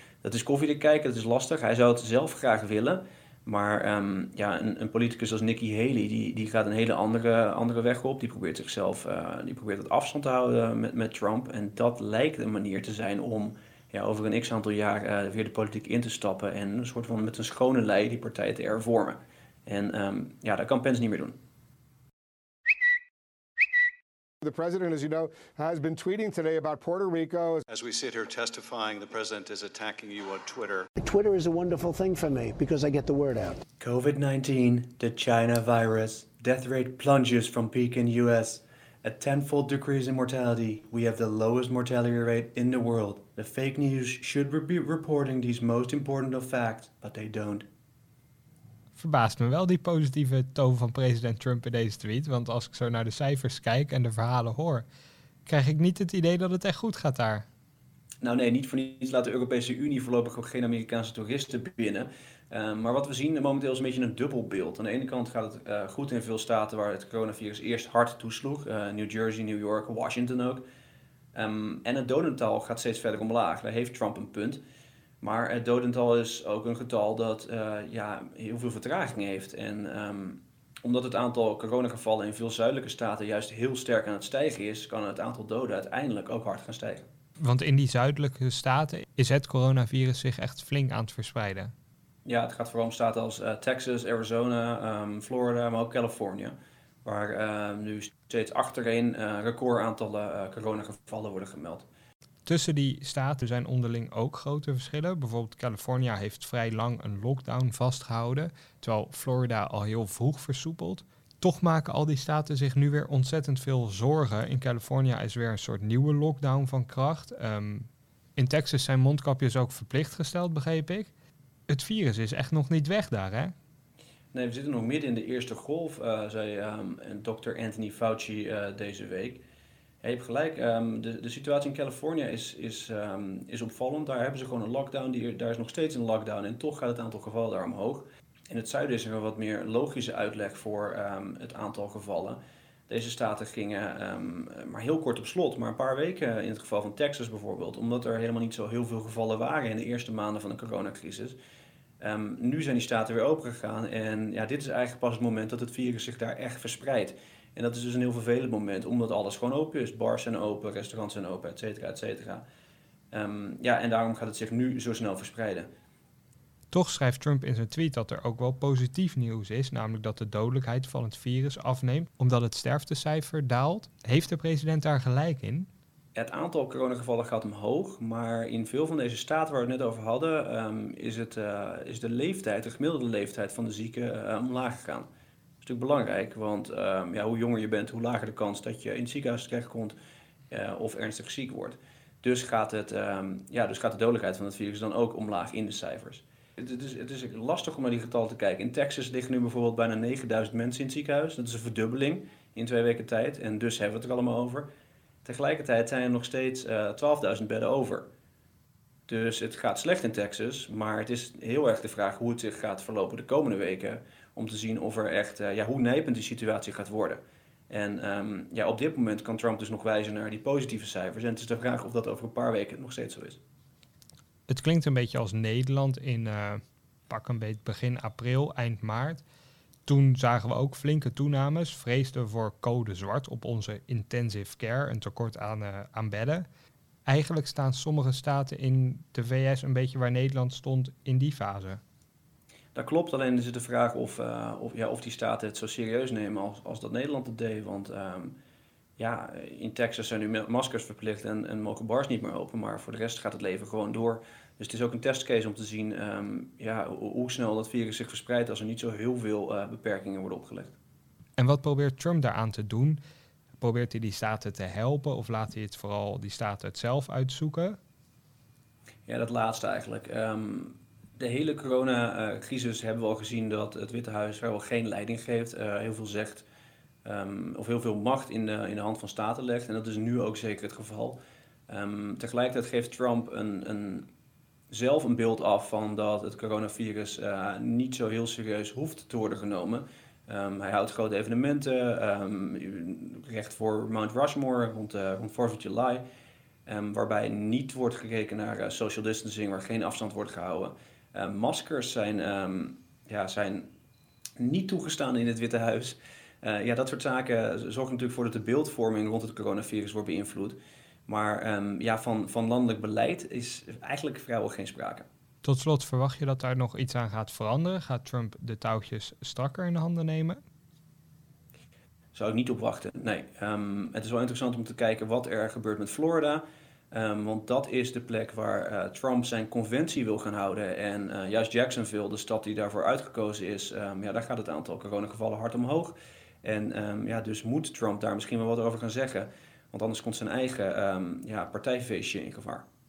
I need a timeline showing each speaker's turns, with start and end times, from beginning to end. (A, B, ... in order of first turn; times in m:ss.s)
0:00.2-0:21.4 A
0:24.4-0:27.6 B
0:27.7-0:30.9 C
0:31.0-0:33.6 D
0:33.8-0:47.7 A
0:49.0-0:54.9 E
0:55.5-0:57.5 E
0:58.2-1:10.6 A
1:11.3-1:14.6 A
1:15.2-1:27.0 A
1:27.4-1:31.7 E
1:32.2-1:41.9 A
1:42.5-2:01.1 E
2:01.7-2:03.5 E
2:04.3-2:09.4 A
2:10.0-2:31.4 A
2:32.0-2:42.4 A
2:43.1-2:45.7 A
2:46.7-2:55.7 E
2:56.2-3:05.1 A
3:05.6-3:10.0 A
3:10.5-3:24.7 A
3:25.2-3:28.1 A
3:29.1-3:43.4 A
3:44.5-3:49.2 E
3:49.9-3:56.4 E
3:57.1-4:01.8 E
4:02.7-4:08.4 A
4:09.0-4:20.8 A
4:21.4-4:23.0 E
4:23.6-4:27.8 E
4:29.1-4:36.5 A
4:37.0-4:44.1 A
4:44.7-4:56.0 A
4:56.7-5:03.7 A
5:04.4-5:15.1 A
5:15.4-5:20.4 E
5:22.1-5:42.6 A